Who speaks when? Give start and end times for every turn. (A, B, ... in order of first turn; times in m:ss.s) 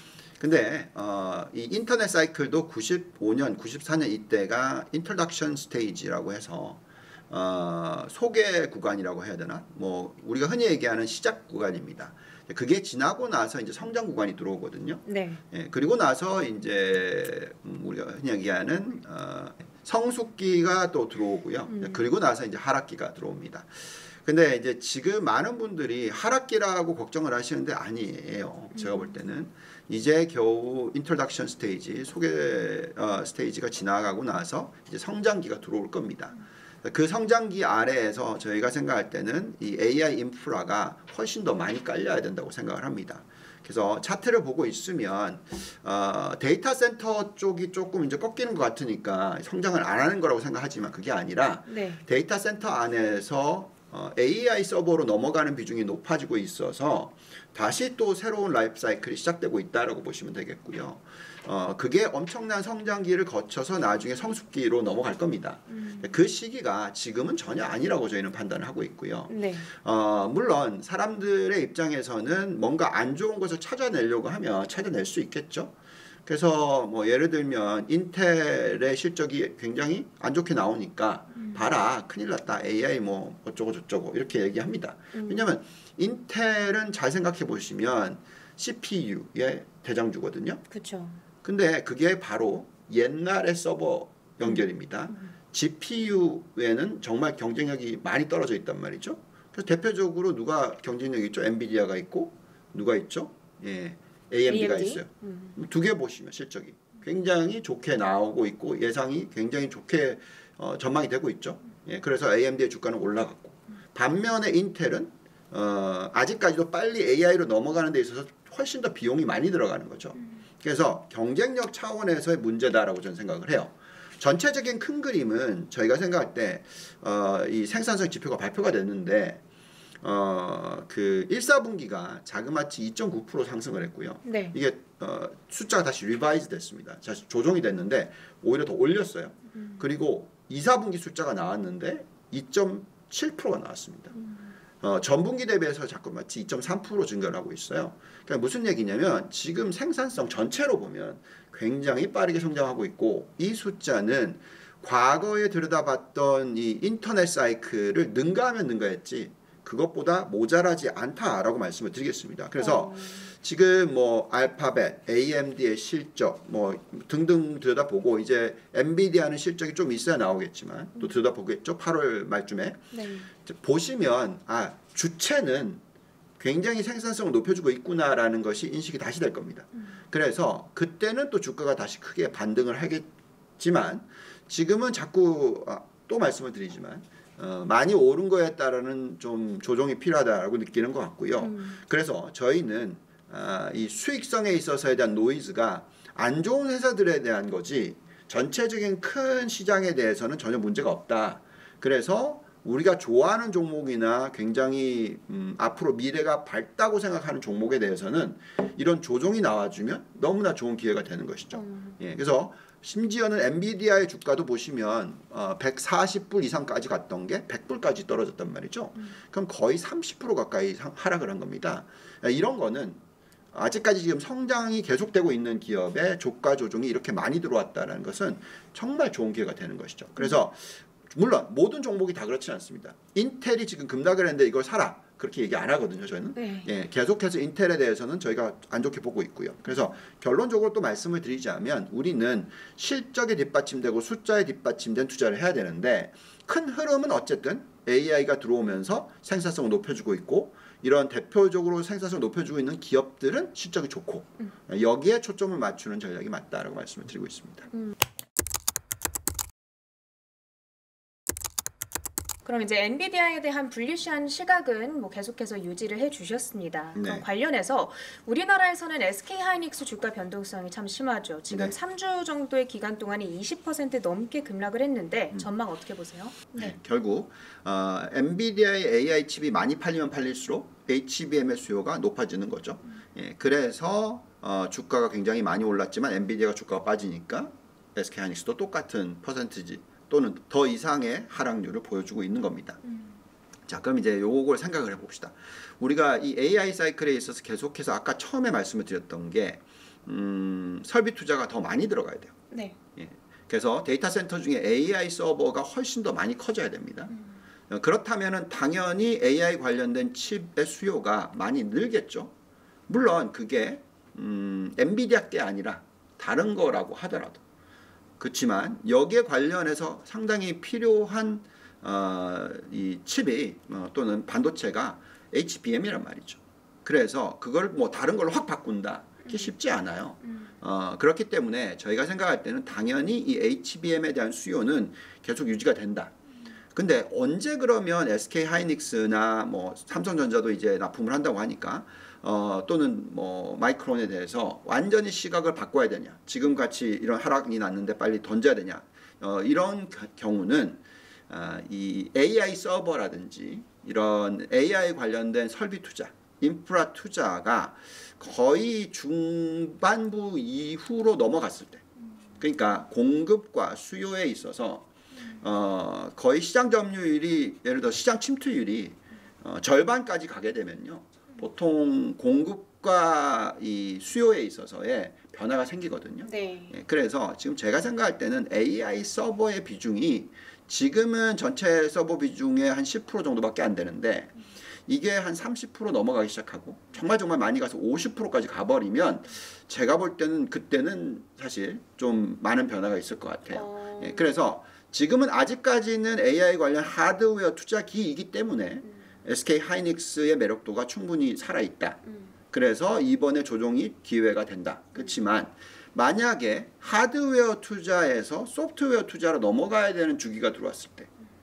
0:00.4-1:15.7 A
0:15.1-0:15.4 B
0:21.7-0:22.0 B
0:28.7-0:29.1 B
0:51.7-0:52.0 B
1:05.7-1:06.1 B
1:09.3-1:09.7 B
1:16.3-1:30.6 A
1:21.4-1:21.6 B
1:25.1-1:25.5 B
1:30.7-1:31.2 B
1:31.4-2:09.4 A
1:34.4-1:35.3 B
1:44.5-1:45.6 B
2:10.0-2:24.2 A
2:14.2-2:14.6 B
2:19.6-2:19.8 B
2:24.2-2:24.5 B
2:24.8-2:52.8 A
2:42.6-2:43.3 B
2:52.9-2:53.3 B
2:53.4-2:55.8 A
2:56.4-3:03.1 A
3:03.6-3:43.0 A
3:11.4-3:11.8 B
3:31.5-3:32.0 B
3:43.5-4:17.7 A
3:56.4-3:56.7 B
4:22.4-4:36.8 B
4:27.0-4:27.3 A
4:36.6-4:52.8 A
4:53.7-5:02.3 A
5:02.5-5:02.8 B
5:03.0-5:07.2 A
5:07.7-5:12.3 A
5:12.9-5:17.4 A
5:18.2-5:36.1 A
5:29.3-5:29.5 B
5:36.8-6:01.8 A
6:02.4-6:04.9 A
6:05.4-6:51.1 A
6:16.3-6:16.8 B
6:33.5-6:34.4 B
6:42.0-6:42.3 B